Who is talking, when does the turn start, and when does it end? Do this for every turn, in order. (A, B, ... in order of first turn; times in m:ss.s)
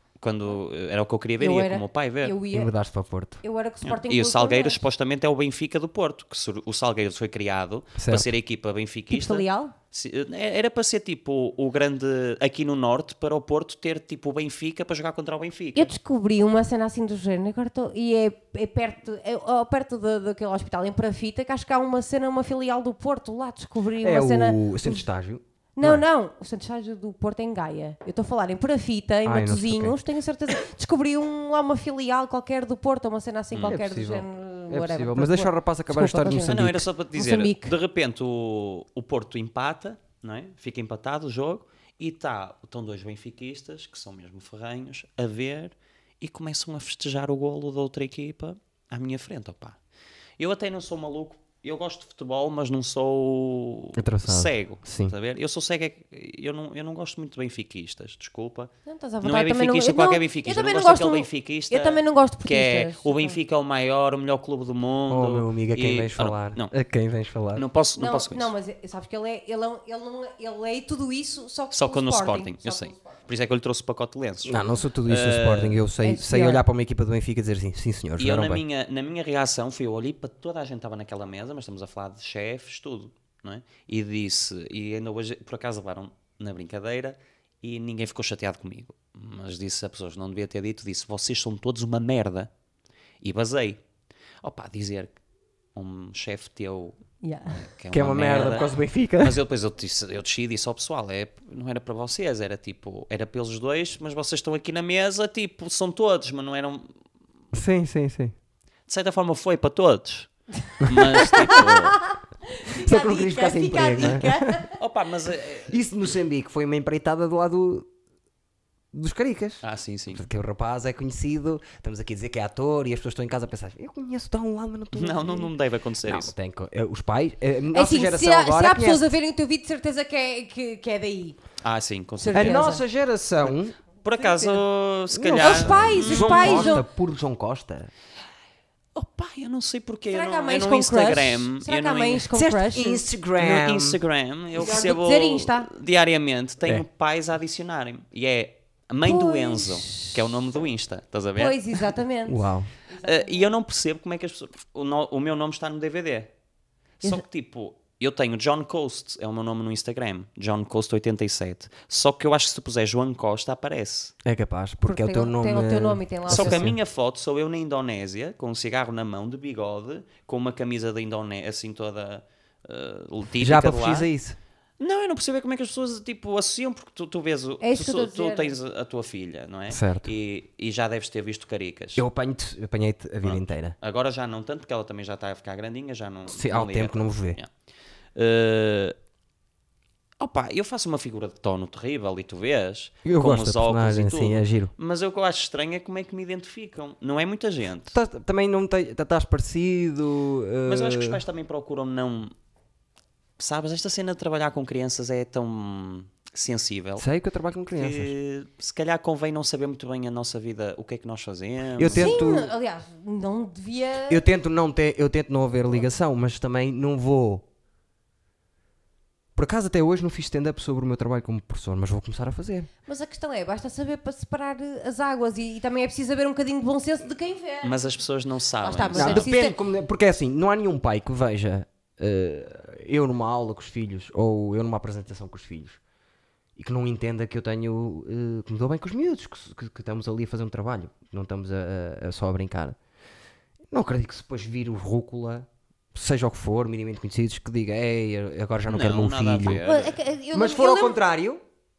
0:00.2-0:02.4 A
0:01.4-0:02.7 B
0:02.5-0:03.4 C
0:03.4-0:04.8 B
0:03.8-0:15.9 A
0:08.0-0:08.3 C
0:09.1-0:09.7 B
0:15.7-0:25.0 B
0:24.0-0:26.0 C
0:25.8-0:37.8 B
0:29.2-0:30.0 C
0:33.5-0:33.8 A
0:33.7-0:36.8 C
0:36.4-0:49.8 A
0:50.4-1:06.7 A
0:54.0-0:55.1 C
0:58.8-1:03.4 B
1:05.1-1:07.6 C
1:07.5-1:08.5 A
1:08.0-1:13.2 B
1:11.7-1:15.8 A
1:14.4-1:18.6 C
1:16.0-1:16.6 B
1:18.2-1:32.5 A
1:33.2-1:33.8 A
1:34.4-1:35.1 A
1:35.7-1:37.0 A
1:37.2-1:37.7 B
1:37.5-1:46.9 A
1:37.9-1:39.4 C
1:47.5-1:48.3 C
1:48.9-1:52.0 A
1:51.0-1:54.8 B
1:52.7-1:54.6 C
1:54.7-1:55.8 A
1:55.7-1:57.9 C
1:58.9-2:05.5 C
1:59.6-2:00.2 A
2:04.9-2:06.3 A
2:06.0-2:09.1 C
2:07.7-2:11.4 B
2:11.6-2:12.7 A
2:12.2-2:12.8 B
2:12.3-2:13.8 C
2:14.0-2:16.8 A
2:14.2-2:14.6 B
2:15.1-2:17.9 C
2:15.4-2:16.8 B
2:18.9-2:22.3 A
2:20.1-2:23.0 B
2:22.3-2:24.0 C
2:23.4-2:31.9 A
2:24.5-2:25.7 B
2:29.0-2:30.2 B
2:31.4-2:33.5 B
2:32.3-2:32.7 C
2:33.0-2:36.3 A
2:37.0-2:44.1 A
2:44.2-2:46.8 C
2:44.8-2:46.7 B
2:46.3-2:54.1 A
2:53.4-2:54.4 C
2:54.8-3:02.0 A
2:57.6-2:58.5 B
2:59.7-3:00.1 C
3:02.0-3:03.8 C
3:03.2-3:07.5 A
3:06.3-3:07.4 C
3:08.1-3:09.0 A
3:10.2-3:17.9 A
3:13.0-3:14.7 C
3:17.9-3:21.2 C
3:20.6-3:22.3 A
3:23.4-3:27.0 A
3:27.0-3:28.1 C
3:27.7-3:32.2 A
3:31.8-3:32.5 C
3:31.9-3:34.2 B
3:34.1-3:37.4 C
3:39.4-3:42.7 C
3:42.9-3:47.8 B
3:47.6-3:49.3 A
3:48.6-3:49.6 B
3:48.9-3:55.8 C
3:56.6-4:02.8 C
4:03.7-4:09.6 C
4:08.7-4:10.0 A
4:09.6-4:11.0 B
4:10.3-4:11.4 C